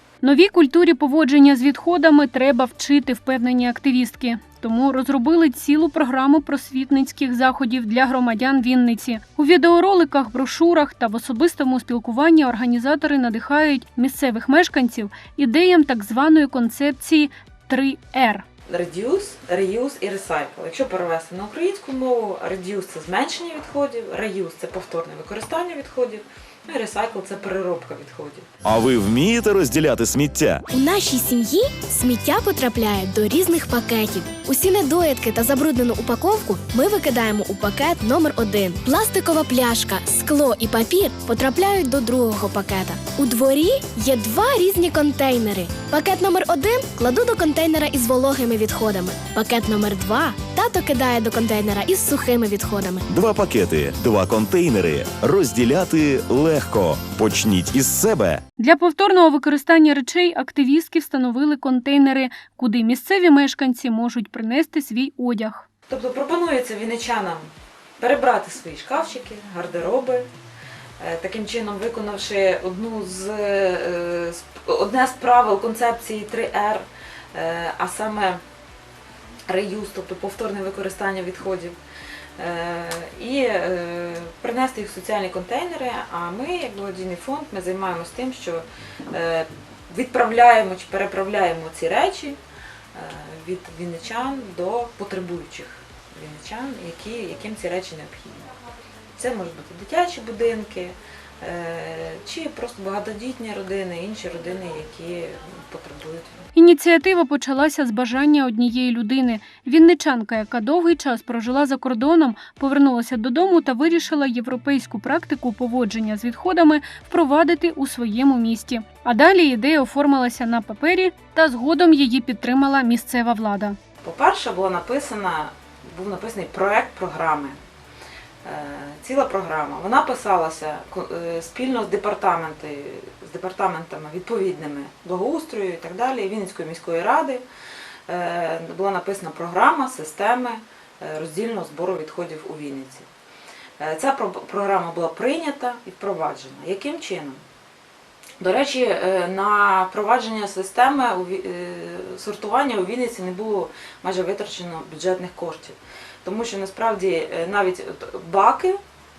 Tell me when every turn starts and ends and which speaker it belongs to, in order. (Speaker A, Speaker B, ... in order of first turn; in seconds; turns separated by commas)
Speaker A: 0.2-18.4, Speaker B: 18.7-28.4, Speaker C: 28.6-30.6, Speaker D: 30.7-53.0, Speaker C: 53.1-58.4, Speaker A: 58.6-65.7, Speaker B: 65.9-67.5, Speaker B: 68.0-70.3, Speaker B: 71.0-78.4, Speaker B: 79.5-81.8, Speaker B: 82.4-92.4, Speaker B: 93.0-98.5, Speaker B: 99.2-106.4, Speaker A: 106.5-123.8, Speaker B: 124.0-127.6, Speaker B: 128.4-137.4, Speaker B: 138.1-143.1, Speaker B: 143.8-147.4, Speaker B: 148.4-158.8